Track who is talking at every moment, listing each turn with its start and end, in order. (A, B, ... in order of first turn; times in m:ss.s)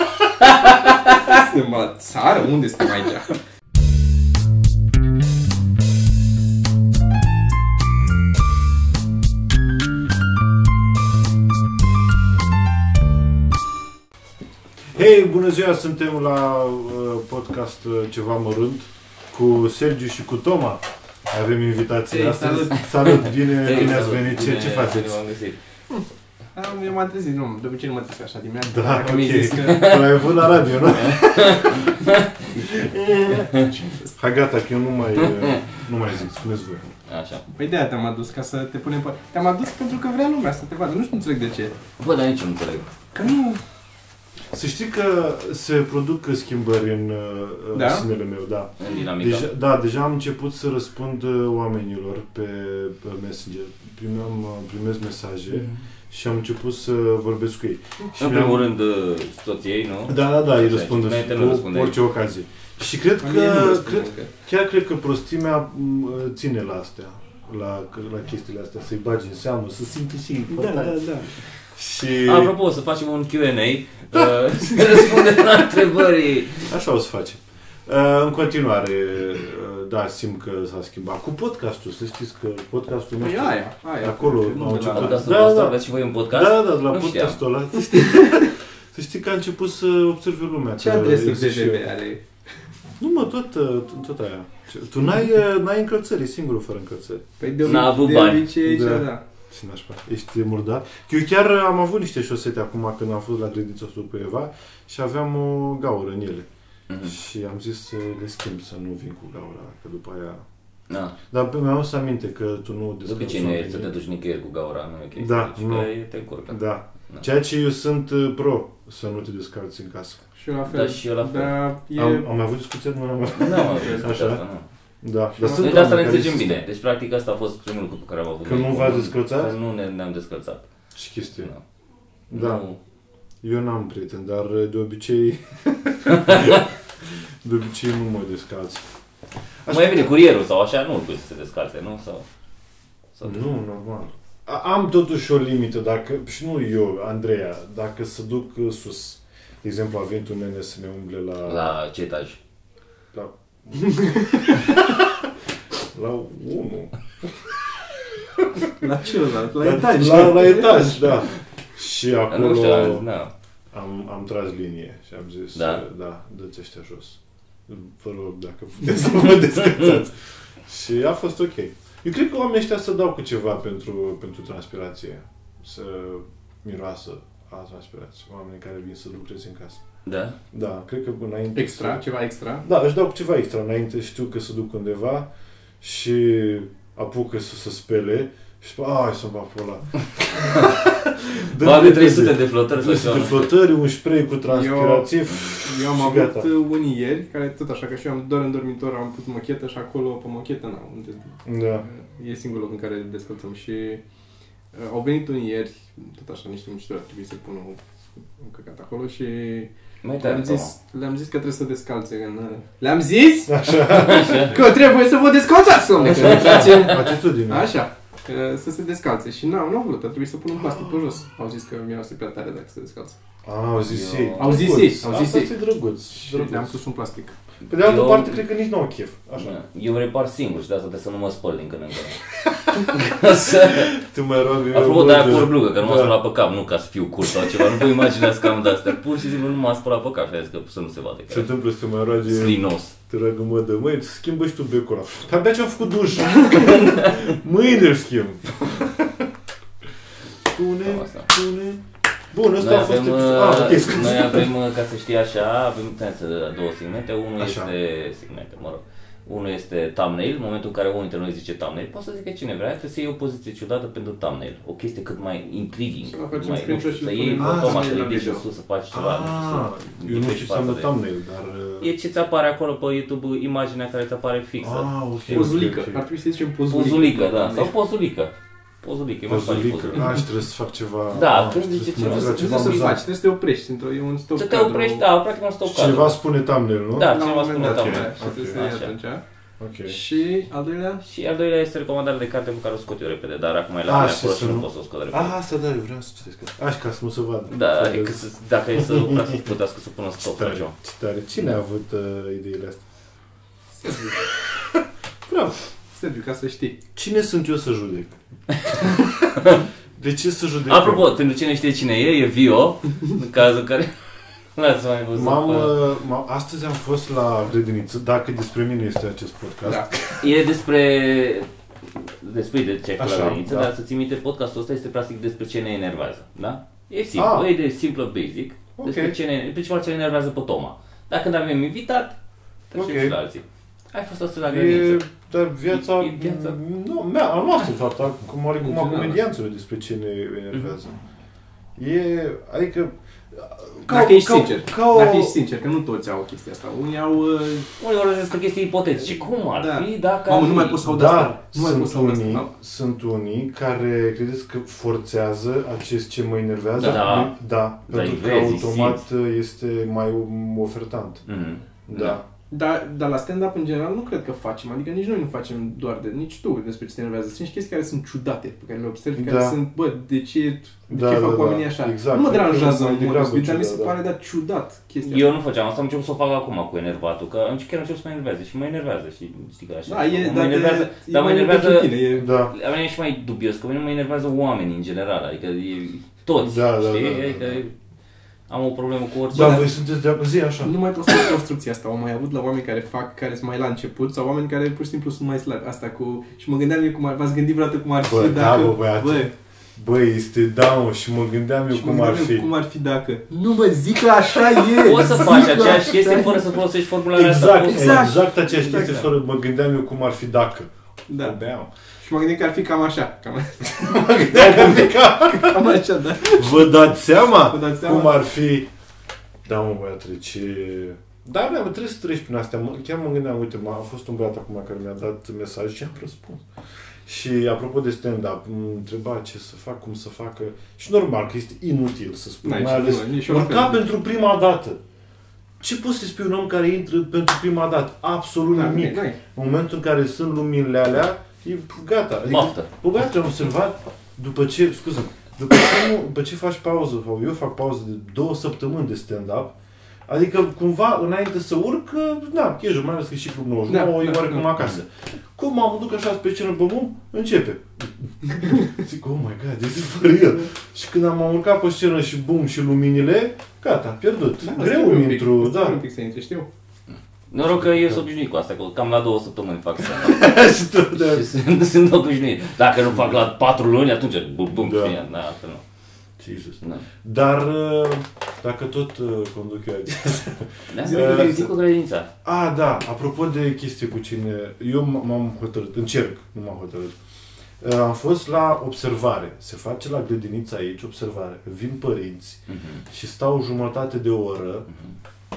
0:00.4-0:03.4 A
0:15.0-0:25.2 B
0:22.1-0:22.9 A
0:22.9-0:25.6 C
0:26.6-0:29.9 A
0:28.7-0:32.0 B
0:29.1-0:30.3 C
0:30.9-0:32.7 C
0:32.6-0:36.9 B
0:33.8-0:34.1 A
0:35.2-0:35.8 C
0:37.1-0:37.4 C
0:37.5-0:41.8 A
0:42.0-0:42.9 C
0:43.2-0:43.6 A
0:44.5-0:58.7 B
0:47.7-0:48.1 A
0:48.8-0:49.5 C
0:58.2-1:02.0 C
1:00.1-1:11.0 B
1:03.2-1:04.3 A
1:10.5-1:11.3 A
1:11.8-1:12.5 B
1:12.2-1:16.7 C
1:14.1-1:15.4 B
1:16.6-1:25.8 B
1:23.2-1:25.3 A
1:24.9-1:27.4 C
1:26.3-1:31.9 B
1:27.8-1:28.5 A
1:30.8-1:32.2 A
1:33.0-1:37.3 B
1:37.4-1:39.2 A
1:37.6-1:38.6 C
1:38.6-1:46.5 B
1:46.9-1:47.1 C
1:47.0-1:50.4 B
1:50.9-1:51.2 C
1:51.3-1:53.9 B
1:53.0-1:56.6 C
1:55.2-1:55.9 B
1:56.5-2:00.2 B
2:00.4-2:02.3 A
2:00.7-2:01.6 C
2:02.0-2:04.4 B
2:03.4-2:04.6 C
2:05.0-2:06.6 B
2:05.4-2:10.7 C
2:08.4-2:09.6 B
2:11.0-2:11.5 B
2:12.3-2:12.6 B
2:12.3-2:12.8 C
2:13.4-2:16.7 B
2:16.1-2:16.6 C
2:17.4-2:18.8 B
2:19.7-2:20.1 B
2:19.7-2:22.2 C
2:23.2-2:23.5 C
2:23.2-2:31.8 B
2:31.5-2:32.4 C
2:33.1-2:35.2 B
2:33.8-2:34.5 A
2:35.9-2:37.5 B
2:38.3-2:38.6 B
2:38.6-2:41.2 A
2:39.6-2:43.0 B
2:42.3-2:43.3 C
2:43.7-2:59.8 B
2:45.6-2:45.8 C
3:00.0-3:00.4 C
3:00.5-3:02.0 B
3:01.6-3:02.6 A
3:02.6-3:05.3 B
3:05.8-3:16.5 B
3:11.5-3:13.5 C
3:14.5-3:21.3 A
3:21.4-3:21.8 B
3:21.8-3:24.0 A
3:24.7-3:27.8 A
3:28.3-3:43.2 A
3:30.0-3:30.7 C
3:33.5-3:34.6 B
3:33.9-3:34.5 C
3:36.0-3:37.7 B
3:36.2-3:36.9 C
3:43.4-3:46.8 B
3:43.8-3:44.7 C
3:44.4-3:45.5 A
3:46.1-3:47.4 A
3:47.7-3:49.6 B
3:47.7-3:48.4 C
3:49.4-3:52.2 C
3:52.5-3:56.1 B
3:52.8-3:53.9 C
3:54.7-4:01.5 C
4:01.3-4:09.3 B
4:02.3-4:03.0 C
4:06.8-4:07.2 C
4:10.4-4:11.8 B
4:10.8-4:11.3 C
4:12.3-4:14.5 B
4:12.6-4:30.9 C
4:17.4-4:17.7 B
4:26.1-4:28.4 A
4:27.4-4:27.9 B
4:28.9-4:31.9 B
4:31.8-4:35.5 C
4:34.6-4:36.0 B
4:35.3-4:37.7 A
4:36.7-4:40.2 C
4:39.3-4:43.0 B
4:41.1-4:42.8 C
4:42.0-4:45.0 A
4:44.4-4:46.2 C
4:45.6-4:48.6 B
4:47.0-4:48.9 C
4:47.0-4:49.2 A
4:49.6-4:50.0 B
4:49.9-4:51.0 A
4:51.0-4:55.4 C
4:53.9-4:59.5 B
4:57.5-5:00.7 C
5:00.2-5:02.8 B
5:03.8-5:04.2 A
5:05.3-5:06.8 A
5:07.0-5:08.2 B
5:09.4-5:09.7 C
5:10.0-5:11.1 B
5:10.7-5:13.9 C
5:14.6-5:15.8 C
5:15.1-5:20.0 B
5:19.6-5:20.2 A
5:20.2-5:32.2 C
5:23.0-5:23.7 B
5:27.1-5:27.5 B
5:28.8-5:29.2 B
5:32.7-5:35.0 C
5:32.8-5:33.2 B
5:34.5-5:41.0 B
5:35.7-5:36.6 C
5:38.6-5:39.2 A
5:41.8-5:45.4 B
5:43.9-5:47.7 A
5:47.8-5:50.8 C
5:49.6-5:52.5 A
5:50.8-6:01.2 B
5:56.8-5:57.0 A
5:56.8-5:57.4 C
5:57.9-5:59.0 C
6:01.3-6:02.2 C
6:01.9-6:02.2 B
6:02.5-6:15.3 A
6:09.2-6:09.6 B
6:10.9-6:14.0 B
6:15.0-6:27.7 C
6:19.9-6:22.3 A
6:22.2-6:22.5 B
6:26.4-6:27.6 B
6:28.5-6:29.7 C
6:29.3-6:30.8 B
6:29.3-6:29.7 A
6:30.6-6:39.3 A
6:38.0-6:42.5 B
6:41.7-6:46.4 A
6:44.5-6:46.0 B
6:44.8-6:48.2 C
6:47.1-6:50.7 B
6:47.7-6:49.1 A
6:51.1-6:51.4 A
6:51.2-6:51.7 B
6:52.0-6:56.7 A
6:53.6-6:58.7 B
6:57.5-6:58.2 A
6:59.4-7:06.4 B
7:07.1-7:14.8 B
7:12.4-7:13.8 A
7:15.6-7:29.5 B
7:18.5-7:19.2 A
7:22.3-7:22.7 C
7:30.1-7:45.8 B
7:33.7-7:34.5 A
7:44.4-7:46.5 A
7:47.3-7:55.6 C
7:47.5-7:48.0 B
7:49.9-7:51.3 B
7:54.5-7:55.0 B
7:56.2-8:01.5 B
8:00.7-8:02.1 C
8:00.8-8:01.5 A
8:02.2-8:07.0 B
8:07.6-8:14.7 B
8:12.5-8:12.8 C